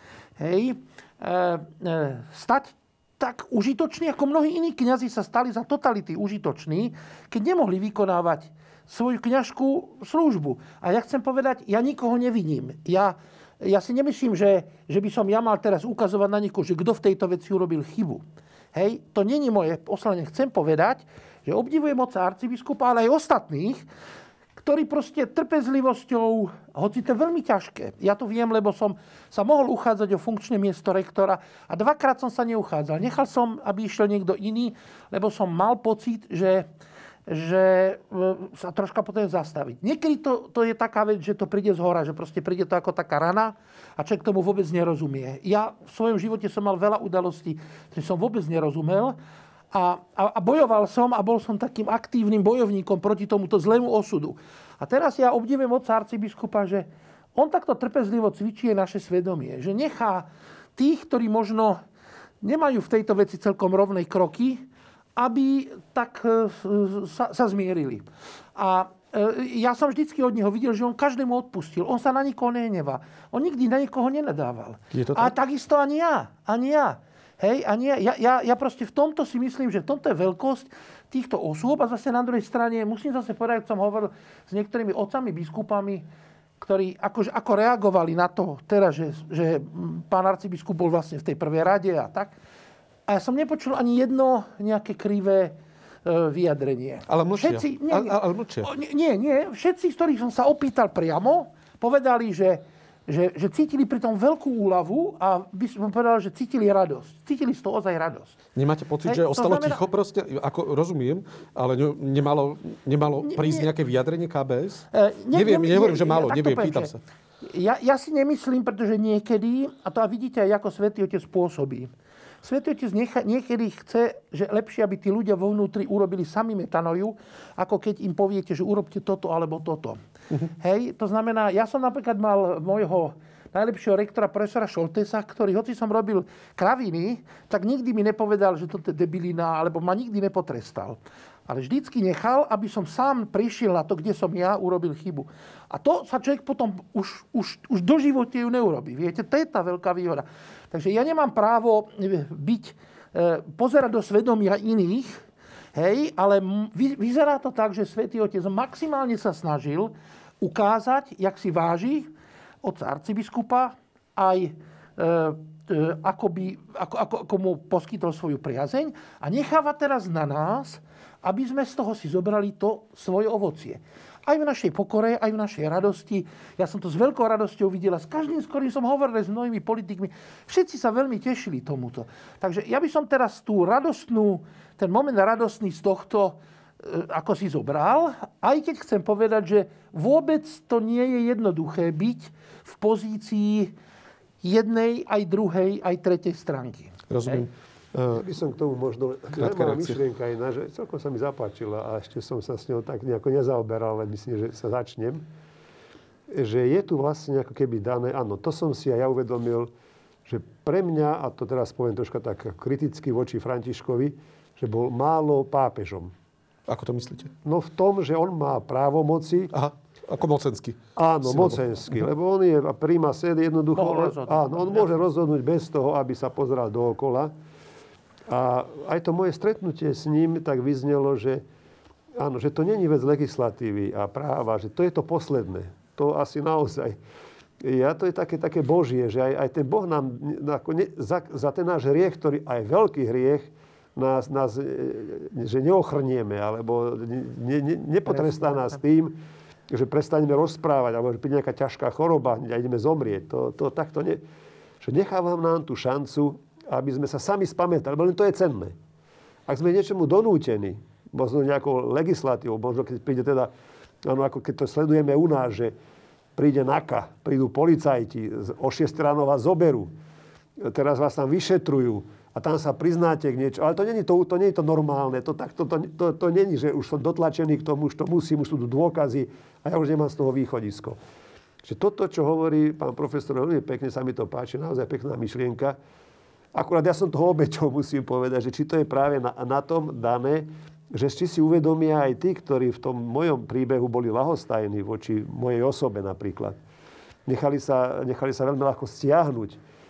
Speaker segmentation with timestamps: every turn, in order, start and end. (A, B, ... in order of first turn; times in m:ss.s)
0:00.4-0:18.2 A
0:18.7-0:23.8 A
0:24.6-0:36.7 A
0:37.3-0:49.2 A
0:49.7-1:01.8 A
1:02.4-1:26.1 A
1:14.9-1:15.3 B
1:26.6-1:32.3 A
1:33.1-1:48.4 A
1:37.1-1:38.7 B
1:48.6-1:57.0 B
1:49.0-1:49.8 A
1:53.2-1:53.7 A
1:54.9-1:56.9 A
1:57.4-2:01.9 A
2:02.4-2:10.0 A
2:10.6-2:42.1 A
2:42.6-3:13.8 A
3:14.4-3:17.5 A
3:17.1-3:18.2 B
3:18.1-3:25.2 C
3:19.4-3:20.0 B
3:26.3-3:29.7 C
3:30.3-3:36.1 C
3:36.7-3:37.3 B
3:37.4-3:39.5 C
3:39.5-3:41.6 B
3:41.0-3:47.3 C
3:43.8-3:44.9 A
3:48.3-3:51.4 C
3:52.2-3:57.0 C
3:57.6-4:09.2 C
4:09.7-4:14.2 C
4:14.8-4:18.7 C
4:19.5-4:23.5 C
4:24.0-4:25.7 C
4:26.4-4:29.9 C
4:30.6-4:41.0 C
4:41.6-4:45.8 C
4:46.5-4:56.6 C
4:57.3-4:59.6 C